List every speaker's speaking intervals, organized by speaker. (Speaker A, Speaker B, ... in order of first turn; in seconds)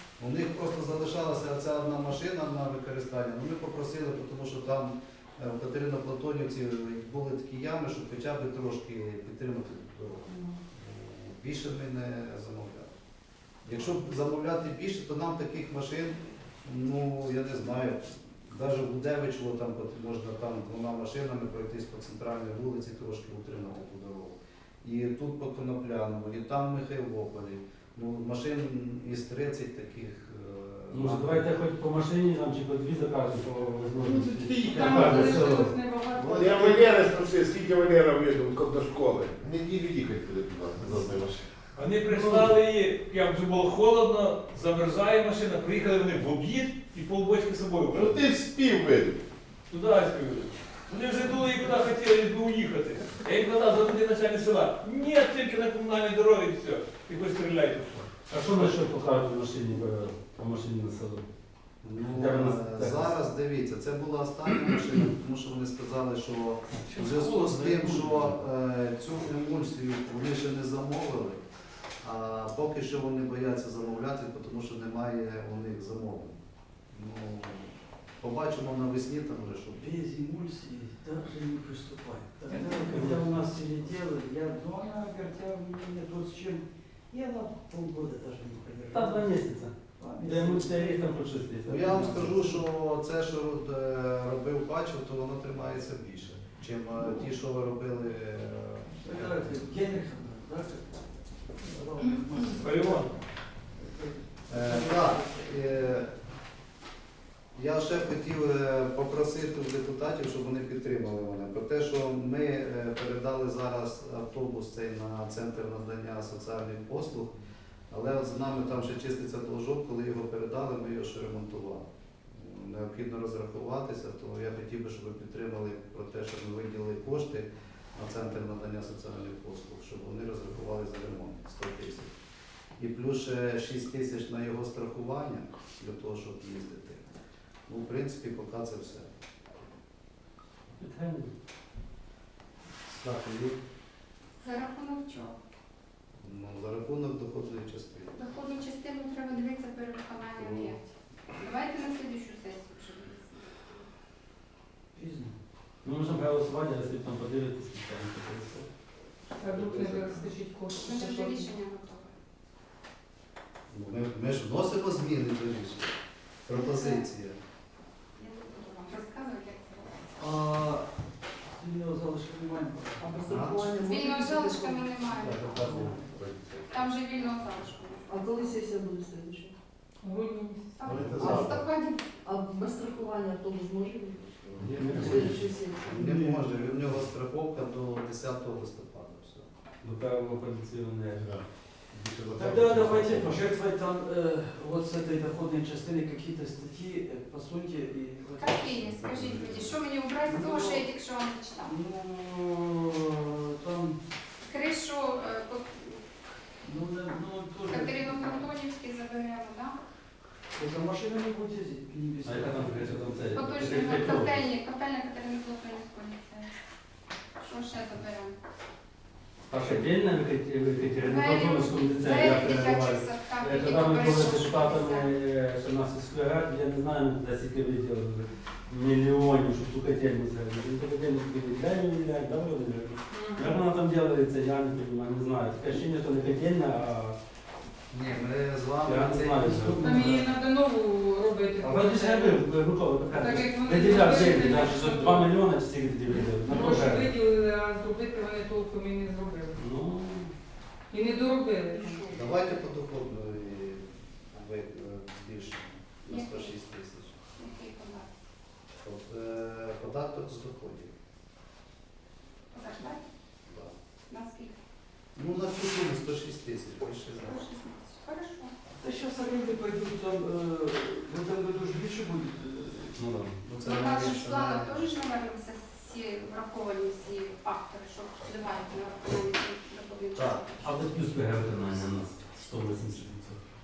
Speaker A: 0.2-12.9, 13.6-31.5, 61.8-71.4, 72.0-76.4, 76.9-79.8, 91.7-99.5, 104.5-106.1, 107.5-117.3, 117.9-132.1, 132.8-137.1, 137.7-139.1, 142.9-143.6, 146.2-148.2, 150.4-150.7, 163.7-167.4, 173.2-173.7, 175.7-175.9, 180.8-181.6, 184.8-189.5, 199.0-199.6, 237.9-239.6, 252.1-257.1, 258.8-260.9, 263.5-263.7, 265.1-267.3, 273.4-274.9, 280.1-280.4
Speaker B: 10.2-10.6, 34.0-36.9, 159.4-161.5, 180.0-180.8, 233.1-233.6, 239.8-242.4, 243.0-245.3, 246.4-249.6, 250.9-252.0
Speaker C: 30.9-35.7, 42.0-42.5, 58.3-61.2, 62.1-63.1, 82.5-83.5, 88.9-92.5, 102.6-103.1, 140.8-141.3, 155.8-158.7, 184.6-185.4, 189.8-191.3, 212.2-214.4, 219.5-237.2, 238.8-240.2, 241.6-247.1, 249.5-250.3, 272.9-273.4, 280.6-283.4
Speaker D: 34.8-35.3, 36.1-41.5, 47.9-49.2, 159.4-160.2, 175.3-176.7, 180.8-181.6, 184.5-185.3, 191.2-193.3, 199.0-199.3
Speaker E: 41.7-48.2, 49.7-58.1
Speaker F: 66.9-68.3, 79.7-89.3, 90.0-91.1, 92.0-92.6, 97.0-97.3, 98.9-100.9, 101.6-103.1, 103.7-105.9, 154.9-155.3, 170.2-170.8, 171.4-173.1, 175.6-176.1, 186.1-186.5, 192.3-198.8, 200.2-200.9, 201.6-204.0, 206.6-208.5, 210.5-213.2, 239.4-240.3, 268.8-273.0
Speaker G: 144.4-145.3, 148.1-153.7, 160.8-162.1, 166.5-167.0, 168.2-170.1, 173.8-176.0, 176.7-178.1, 180.8-182.1, 198.4-201.7, 204.4-206.0, 207.7-209.8, 213.3-216.5, 217.4-218.3, 221.0-225.1, 256.1-256.6, 257.3-258.1, 262.5-263.1, 264.1-264.6, 267.2-268.5, 273.6-281.2
Speaker H: 173.0-174.9, 178.1-179.5, 182.2-186.3